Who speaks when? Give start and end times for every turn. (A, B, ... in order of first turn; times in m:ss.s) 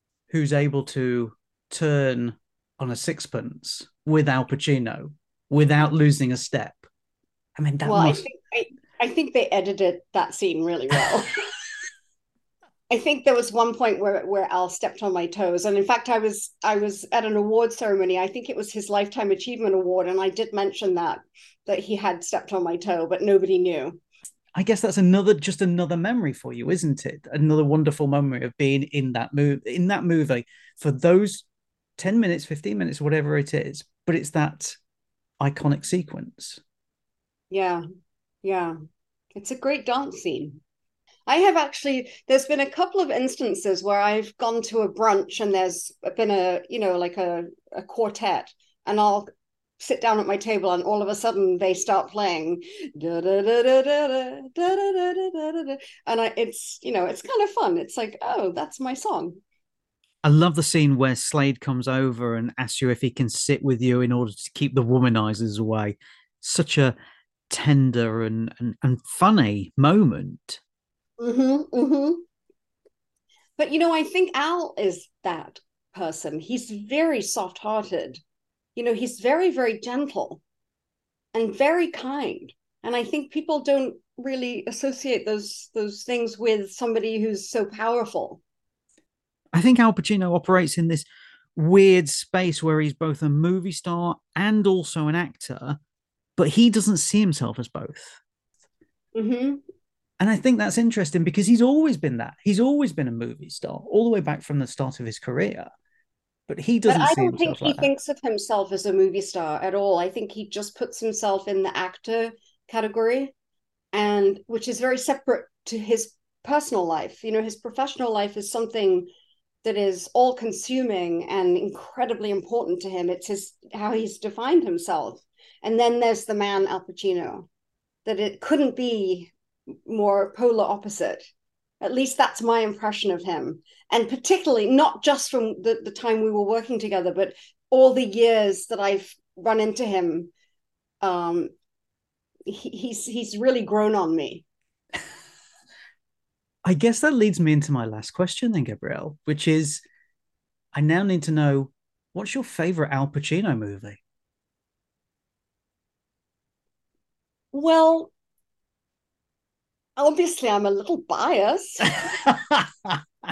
0:00.3-0:06.8 A
0:07.6-0:08.2 A
0:07.8-0:11.3 B
0:12.9-0:24.0 B
0:24.6-0:31.5 A
0:32.0-0:34.8 A
0:35.4-0:36.6 A
0:37.5-0:37.8 B
0:38.4-0:38.8 B
0:39.4-0:40.6 B
0:41.3-0:49.3 B
0:49.8-0:59.4 B
1:00.2-1:07.0 A
1:07.5-1:10.6 A
1:11.2-1:12.2 B
1:13.6-1:18.2 B
1:18.8-1:20.4 B
1:21.3-1:28.4 B
1:29.5-1:35.8 A
1:36.4-1:38.2 A
1:39.2-1:39.6 B
1:40.2-1:45.7 A
1:46.5-1:47.9 A
1:46.9-1:53.3 B
1:53.9-1:59.1 B
1:59.6-2:07.5 B
2:08.0-2:09.3 B
2:09.9-2:11.3 B
2:11.8-2:20.3 B
2:21.0-2:21.5 B
2:22.5-2:24.4 B
2:26.6-2:29.8 A
2:30.7-2:34.0 A
2:37.5-2:38.1 B
2:40.0-2:42.2 B
2:42.1-2:43.0 A